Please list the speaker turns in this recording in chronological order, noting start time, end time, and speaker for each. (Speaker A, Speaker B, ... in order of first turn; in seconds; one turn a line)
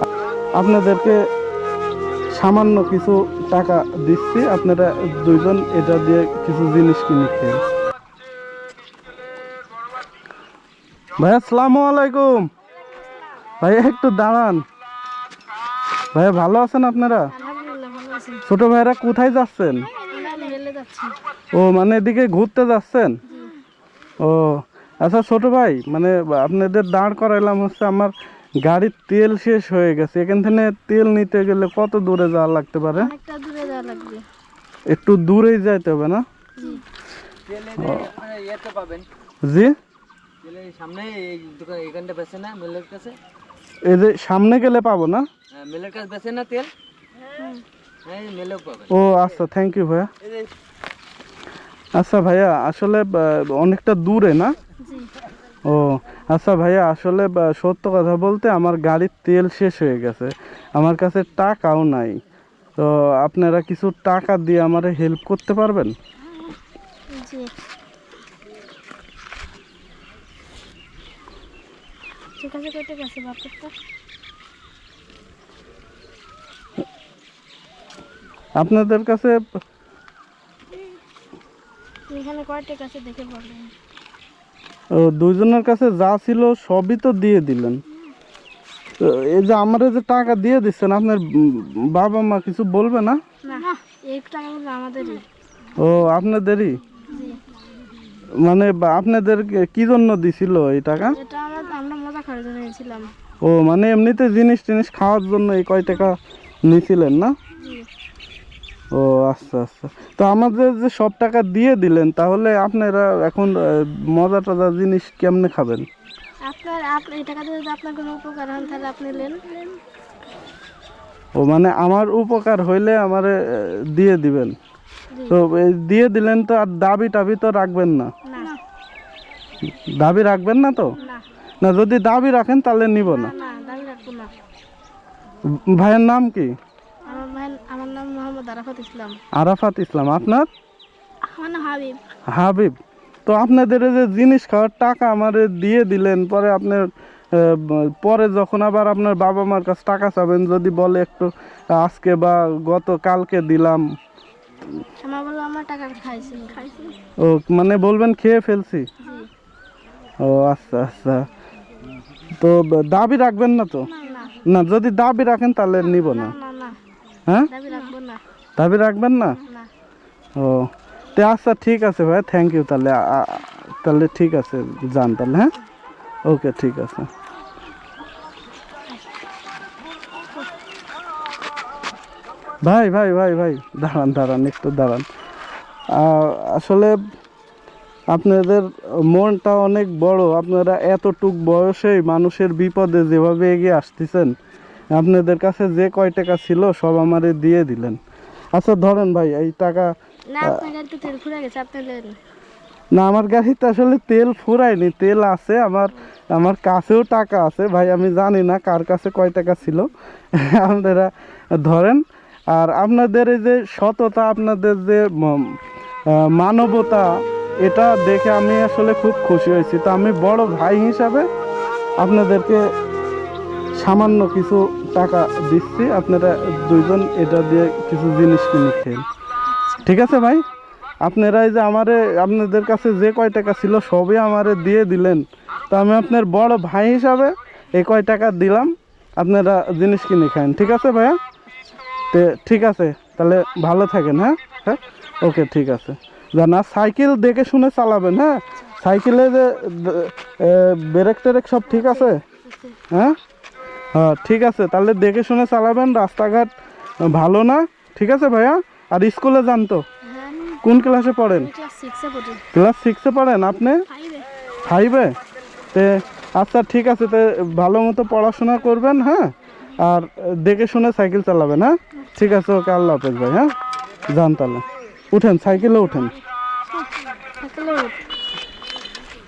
Speaker A: 0.6-1.3
Speaker A: 2.3-7.6
Speaker A: 11.2-12.5
Speaker A: 13.6-14.6
Speaker A: 16.1-17.3
Speaker B: 17.3-18.4
Speaker A: 18.4-19.9
Speaker B: 20.0-21.2
Speaker A: 21.5-23.2
Speaker B: 23.3-23.6
Speaker A: 24.2-33.1
Speaker B: 33.0-34.2
Speaker A: 34.9-36.2
Speaker B: 36.6-36.8
Speaker C: 37.5-39.1
Speaker A: 37.8-38.1
Speaker A: 39.5-39.8
Speaker C: 40.4-43.2
Speaker A: 43.9-45.3
Speaker C: 45.5-46.7
Speaker B: 47.4-47.6
Speaker C: 48.0-48.9
Speaker A: 48.9-50.1
Speaker A: 52.0-54.5
Speaker B: 54.8-55.1
Speaker A: 55.7-62.2
Speaker A: 62.8-66.0
Speaker B: 67.1-67.5
Speaker B: 72.4-73.7
Speaker A: 78.6-79.4
Speaker B: 82.1-83.7
Speaker A: 84.9-87.8
Speaker A: 89.0-93.2
Speaker B: 93.4-95.2
Speaker A: 95.8-96.8
Speaker B: 97.1-97.4
Speaker A: 98.4-101.2
Speaker B: 101.1-103.1
Speaker A: 103.4-107.3
Speaker B: 107.6-107.9
Speaker A: 108.9-115.9
Speaker B: 116.5-119.7
Speaker A: 121.4-124.6
Speaker B: 125.1-125.4
Speaker A: 125.3-128.1
Speaker B: 128.3-128.6
Speaker A: 129.7-131.0
Speaker B: 131.0-131.3
Speaker A: 131.6-133.3
Speaker B: 133.0-134.3
Speaker A: 135.4-136.6
Speaker B: 137.0-139.2
Speaker A: 139.3-140.5
Speaker B: 141.3-142.0
Speaker A: 142.3-153.8
Speaker B: 155.0-157.0
Speaker A: 157.2-158.9
Speaker B: 159.0-159.3
Speaker A: 160.2-161.3
Speaker A: 162.3-163.9
Speaker B: 163.9-164.4
Speaker A: 164.4-166.4
Speaker B: 165.8-166.8
Speaker A: 167.3-167.5
Speaker B: 167.5-168.2
Speaker A: 168.6-169.4
Speaker B: 169.4-169.7
Speaker A: 170.4-175.5
Speaker A: 176.3-177.1
Speaker A: 182.6-185.1
Speaker A: 185.9-187.0
Speaker A: 188.1-194.3
Speaker A: 195.0-198.0
Speaker A: 198.6-200.7
Speaker B: 200.3-202.2
Speaker A: 202.9-221.3
Speaker A: 222.0-222.6
Speaker A: 223.8-229.1
Speaker B: 229.5-229.9
Speaker A: 229.8-230.4
Speaker A: 231.0-241.2
Speaker A: 242.1-252.2
Speaker B: 251.7-252.8
Speaker A: 252.9-253.2
Speaker A: 253.9-256.5
Speaker A: 257.1-259.9
Speaker B: 260.1-260.6
Speaker A: 260.6-261.5
Speaker B: 261.3-262.4
Speaker A: 262.5-263.9
Speaker B: 263.9-264.3
Speaker A: 264.6-265.1
Speaker A: 265.7-273.5
Speaker A: 274.1-276.1
Speaker B: 277.4-278.0